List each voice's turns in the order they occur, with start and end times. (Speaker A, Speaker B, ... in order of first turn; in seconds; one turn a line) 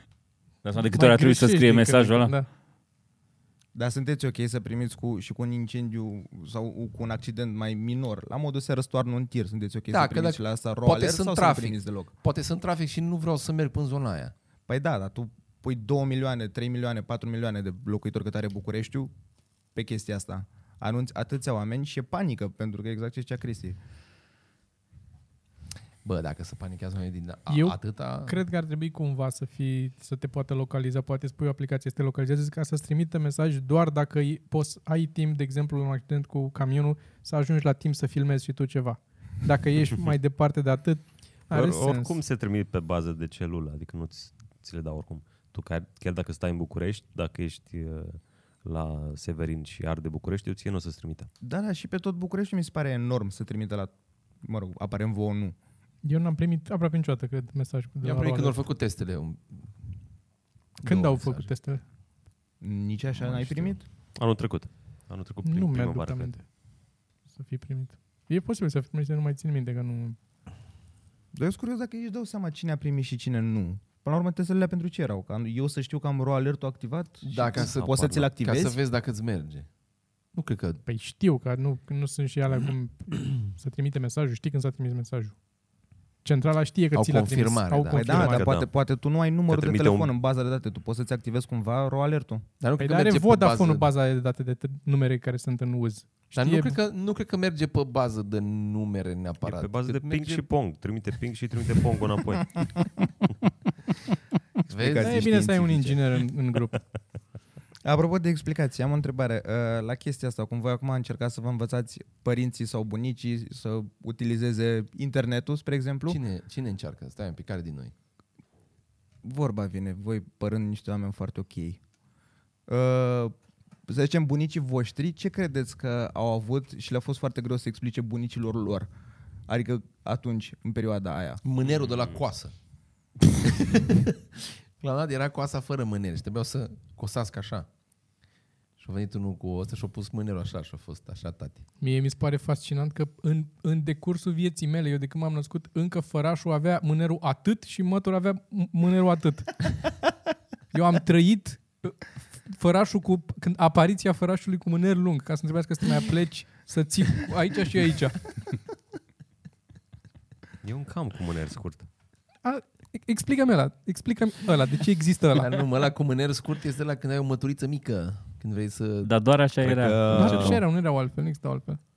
Speaker A: 0.6-2.3
Speaker B: 0.9-2.5
Speaker C: 3.7-12.1
Speaker D: 9.9-14.3
Speaker C: 14.7-19.1
Speaker C: 19.7-23.8
Speaker D: 26.0-28.4
Speaker B: 27.5-42.2
Speaker E: 41.5-51.3
Speaker C: 51.4-55.5
Speaker B: 56.0-58.6
Speaker D: 58.0-59.7
Speaker D: 60.8-61.5
Speaker B: 60.8-61.8
Speaker C: 62.6-63.8
Speaker D: 63.2-63.7
Speaker E: 64.1-66.3
Speaker B: 65.4-66.5
Speaker B: 67.3-70.2
Speaker C: 71.3-78.8
Speaker D: 77.2-79.7
Speaker E: 77.5-78.3
Speaker D: 80.3-80.8
Speaker B: 80.8-85.4
Speaker B: 86.2-88.5
Speaker D: 86.9-88.3
Speaker C: 87.9-92.4
Speaker E: 88.2-88.7
Speaker E: 89.5-90.1
Speaker D: 92.6-93.9
Speaker B: 92.8-96.8
Speaker D: 96.3-100.5
Speaker E: 99.4-102.8
Speaker D: 104.7-105.6
Speaker C: 104.7-106.0
Speaker B: 105.0-106.8
Speaker C: 107.8-116.2
Speaker D: 116.1-117.9
Speaker C: 119.2-121.8
Speaker C: 122.7-123.3
Speaker C: 123.9-128.9
Speaker C: 129.5-131.4
Speaker D: 131.4-132.5
Speaker E: 131.6-132.2
Speaker D: 133.4-137.7
Speaker D: 138.8-141.6
Speaker B: 141.8-149.9
Speaker B: 150.7-158.3
Speaker E: 160.6-161.9
Speaker B: 162.4-165.6
Speaker D: 165.3-169.1
Speaker A: 169.0-170.6
Speaker E: 169.6-170.6
Speaker B: 170.1-171.8